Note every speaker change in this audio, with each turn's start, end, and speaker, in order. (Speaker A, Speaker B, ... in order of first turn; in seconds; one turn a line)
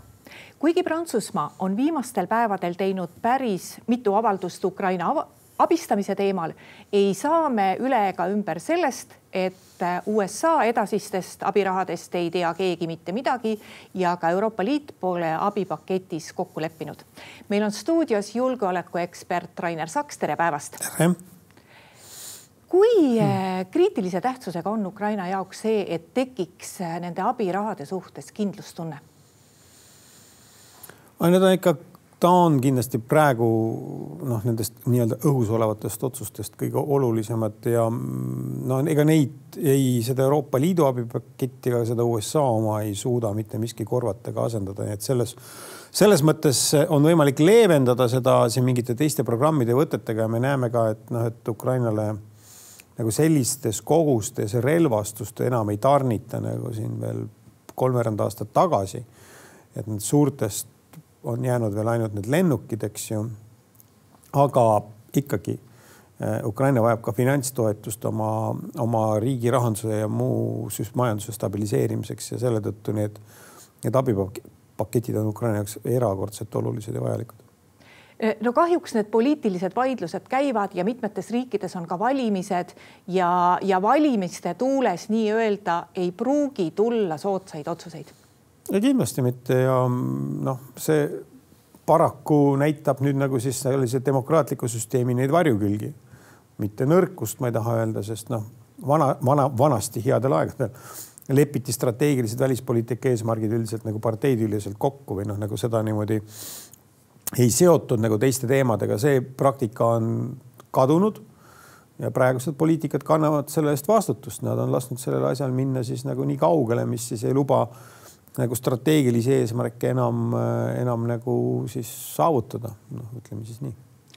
Speaker A: 0.6-20.9
Speaker B: 20.8-21.2
Speaker A: 22.7-29.0
Speaker B: 31.2-45.4
Speaker B: 45.9-52.2
Speaker B: 53.0-59.0
Speaker B: 59.7-63.3
Speaker B: 64.3-65.6
Speaker B: 66.2-73.2
Speaker B: 73.8-77.4
Speaker A: 78.2-88.1
Speaker B: 88.7-91.2
Speaker B: 91.9-95.9
Speaker B: 96.6-100.7
Speaker B: 101.3-106.2
Speaker B: 107.3-111.2
Speaker B: 112.0-117.7
Speaker B: 118.4-123.8